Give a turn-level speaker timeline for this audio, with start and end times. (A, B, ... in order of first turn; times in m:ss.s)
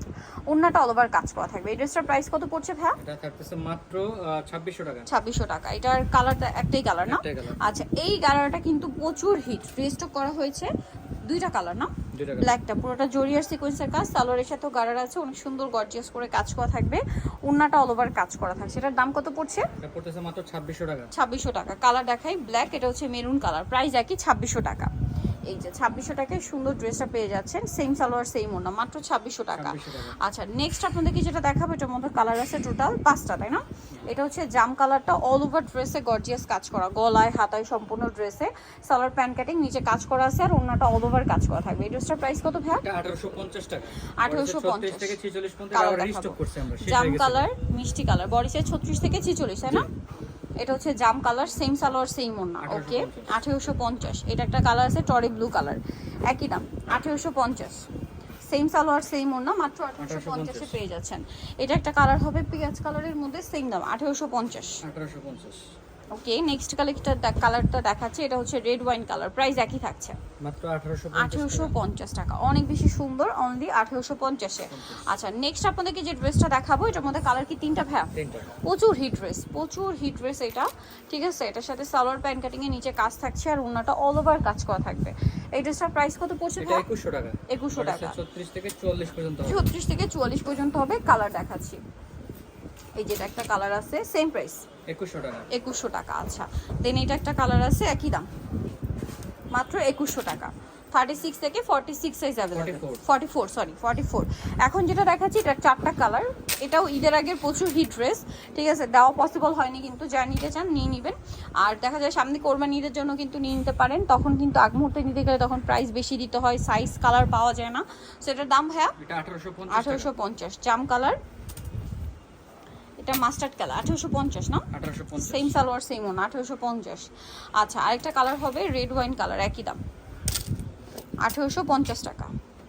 0:00.5-0:03.0 A
0:03.0-0:05.1 B
0:05.1-0:10.7 A
0:07.1-0:07.6 B
0:11.3-0:19.7 A
0:12.1-0:12.6 B
0:19.8-0:21.1 B
0:21.1-0:24.9 A
0:25.5-0:42.8 A
0:29.5-0:30.2 B
0:42.8-0:47.5 B
0:44.2-0:45.2 A
0:45.7-0:49.9 A
0:50.6-0:57.9 A
0:52.6-0:53.4 B
0:58.5-1:04.8 A
1:00.0-1:00.8 B
1:04.8-1:05.6 B
1:06.2-1:10.2 A
1:10.4-1:11.7 B
1:11.1-1:26.8 A
1:14.7-1:15.1 B
1:18.2-1:18.6 B
1:26.6-1:29.7 B
1:27.5-1:28.2 A
1:29.4-1:31.8 A
1:33.0-1:34.6 A
1:34.9-1:35.5 B
1:35.5-1:38.3 A
1:39.5-1:59.0 A
1:42.5-1:43.0 B
1:59.0-2:00.1 B
1:59.7-2:01.2 A
2:03.0-2:04.7 A
2:04.7-2:05.6 B
2:05.2-2:09.8 A
2:11.2-2:12.3 A